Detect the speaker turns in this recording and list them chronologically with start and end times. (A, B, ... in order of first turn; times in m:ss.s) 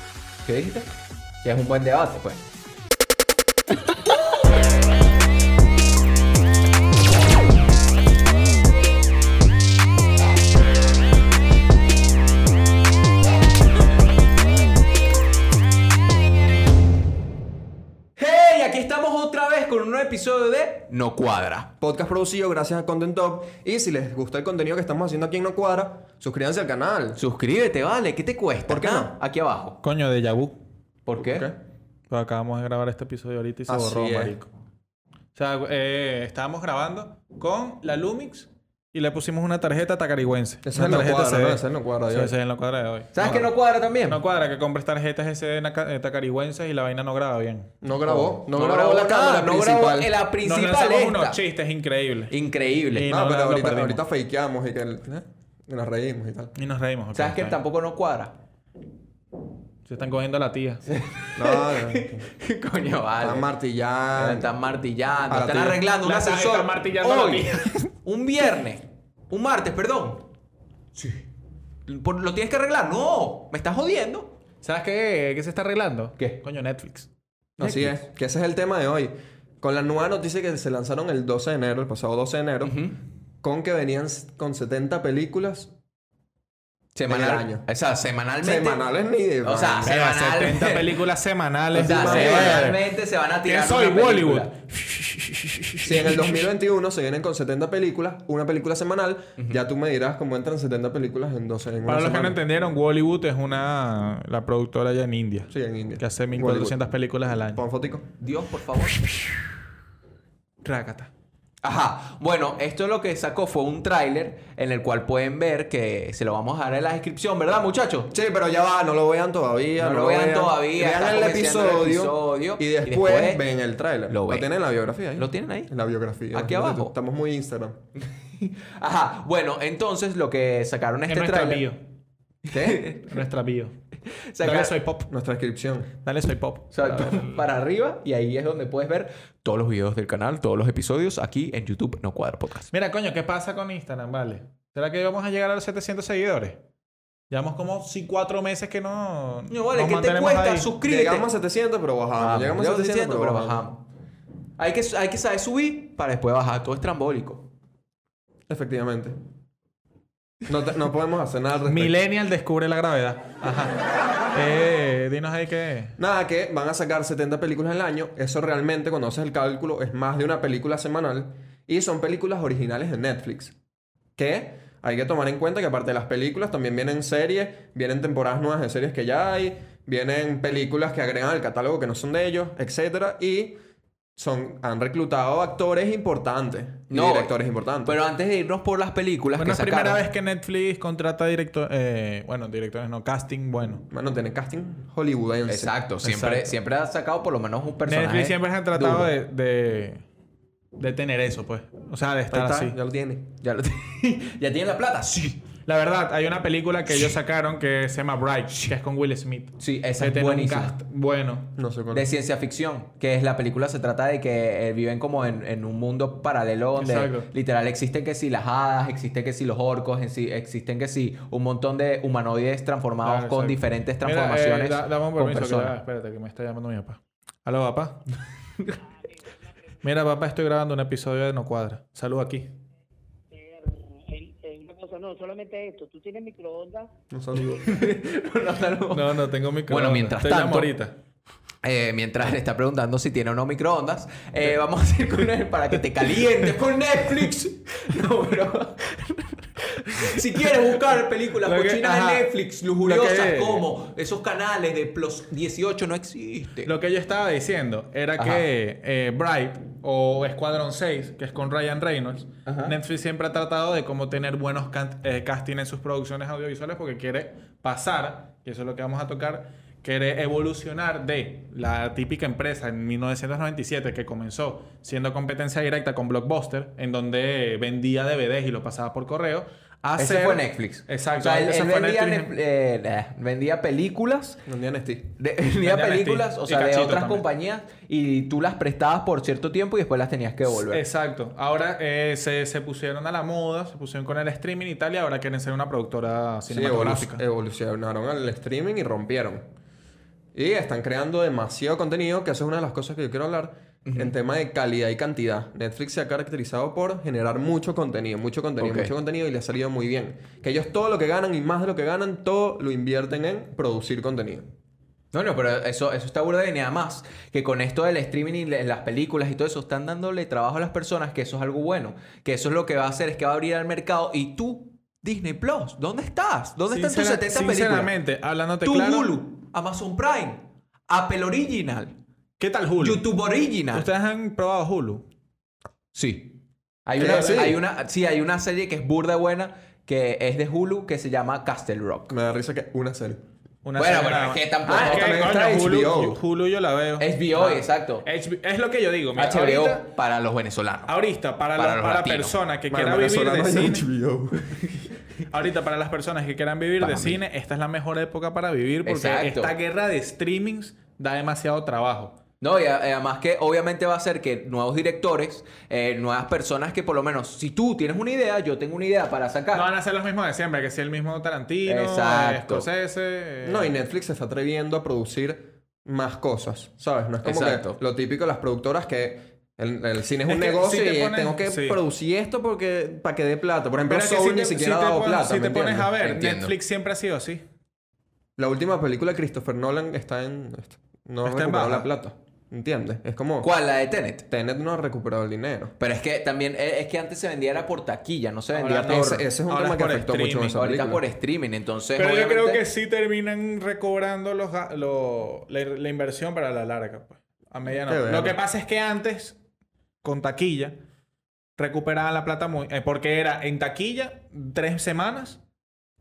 0:00.4-0:00.9 A
0:01.4-0:02.4 A
0:18.2-0:21.7 A
0:21.8-0:27.2 B
0:27.2-0:29.8 A
0:28.7-0:29.1 B
0:29.8-0:30.6 C
0:31.1-0:31.5 A
0:31.2-0:31.6 B
0:32.1-0:34.5 C
0:33.7-0:34.4 B
0:35.4-0:43.1 C
0:40.6-0:42.3 B
0:43.1-0:44.2 A
0:43.2-0:43.5 B
0:44.1-0:47.7 C
0:47.8-0:50.1 B
0:48.0-0:51.4 A
0:50.4-0:52.3 C
0:52.3-0:53.1 A
0:52.9-0:54.0 C
0:53.1-0:56.5 B
0:56.6-0:57.6 C
0:57.1-0:58.3 A
0:59.9-1:00.8 C
1:00.9-1:03.5 A
1:01.4-1:02.3 B
1:03.2-1:04.5 B
1:04.2-1:10.2 A
1:05.3-1:05.8 B
1:06.0-1:07.8 C
1:11.9-1:14.3 A
1:14.6-1:18.0 C
1:17.6-1:22.8 B
1:22.6-1:23.0 A
1:23.4-1:25.7 B
1:27.0-1:28.8 A
1:27.1-1:27.6 B
1:28.4-1:29.9 B
1:29.4-1:31.0 A
1:29.8-1:32.9 C
1:31.7-1:32.8 B
1:31.8-1:34.5 A
1:33.4-1:36.5 C
1:35.8-1:42.4 B
1:39.4-1:39.6 A
1:41.8-1:47.6 C
1:45.5-1:46.8 B
1:47.6-1:48.1 B
1:48.2-1:49.1 A
1:50.6-1:51.1 C
1:51.6-1:58.1 A
1:58.1-2:07.8 B
1:59.8-2:03.4 A
2:04.1-2:04.5 A
2:05.2-2:05.7 A
2:06.3-2:06.9 A
2:08.3-2:11.7 A
2:11.1-2:11.8 C
2:12.4-2:13.2 A
2:12.5-2:12.9 B
2:13.1-2:13.7 C
2:14.1-2:14.7 A
2:14.4-2:15.1 C
2:15.1-2:15.9 B
2:16.0-2:17.4 C
2:16.7-2:22.7 A
2:22.7-2:26.6 C
2:27.3-2:30.8 C
2:29.5-2:31.3 A
2:30.8-2:33.6 B
2:32.2-2:33.8 A
2:34.6-2:37.5 A
2:38.5-2:39.2 B
2:40.5-2:41.9 B
2:41.7-2:43.8 C
2:44.3-2:46.0 C
2:46.0-2:53.5 B
2:54.2-3:03.6 B
3:04.2-3:08.0 B
3:06.9-3:10.0 A
3:09.4-3:13.8 C
3:13.9-3:15.7 B
3:15.5-3:19.1 A
3:16.0-3:16.5 C
3:17.9-3:20.0 C
3:20.8-3:22.8 C
3:22.3-3:23.3 B
3:23.4-3:25.5 A
3:25.7-3:31.5 C
3:29.6-3:30.8 A
3:31.6-3:32.1 B
3:31.9-3:45.8 A
3:36.8-3:37.3 C
3:43.0-3:48.0 C
3:49.8-3:52.5 C
3:53.3-3:56.9 D
3:57.1-3:57.8 B
3:57.6-4:00.7 A
3:58.9-4:00.9 C
4:01.6-4:16.7 A
4:11.4-4:12.3 C
4:12.8-4:13.7 C
4:16.6-4:42.3 C
4:18.2-4:18.5 A
4:22.5-4:22.8 A
4:40.0-4:44.4 A
4:44.5-4:45.1 B
4:45.2-4:50.8 A
4:45.6-4:47.2 C
4:50.5-4:57.2 C
4:56.5-4:59.4 B
5:00.4-5:14.5 B
5:03.9-5:04.2 A
5:08.6-5:08.9 A
5:15.1-5:27.9 A
5:26.7-5:29.1 C
5:28.6-5:31.9 A
5:32.4-5:33.0 C
5:32.8-5:33.9 A
5:33.7-5:35.0 C
5:35.9-5:42.1 A
5:37.0-5:37.6 B
5:37.0-5:37.4 C
5:42.1-5:43.2 B
5:43.6-5:49.8 C
5:43.8-5:45.3 A
5:44.7-5:46.2 B
5:47.0-5:48.1 A
5:49.2-5:50.9 A
5:50.9-5:53.9 C
5:51.6-5:52.4 A
5:52.7-5:54.7 B
5:55.3-6:02.2 C
5:56.8-5:57.2 A
5:58.8-5:59.5 A
6:02.4-6:09.7 A
6:09.5-6:13.7 C
6:11.6-6:12.7 A
6:13.4-6:25.9 B
6:17.2-6:17.8 A
6:20.3-6:21.8 C
6:23.9-6:27.4 C
6:26.0-6:26.5 A
6:28.4-6:33.5 B
6:31.2-6:31.9 C
6:33.4-6:34.2 A
6:34.3-6:35.7 B
6:35.8-6:39.2 A
6:38.5-6:40.6 C
6:38.7-6:41.0 B
6:40.6-6:42.6 A
6:42.0-6:49.4 C
6:47.7-6:48.4 B
6:50.0-6:50.8 C
6:51.6-6:55.4 C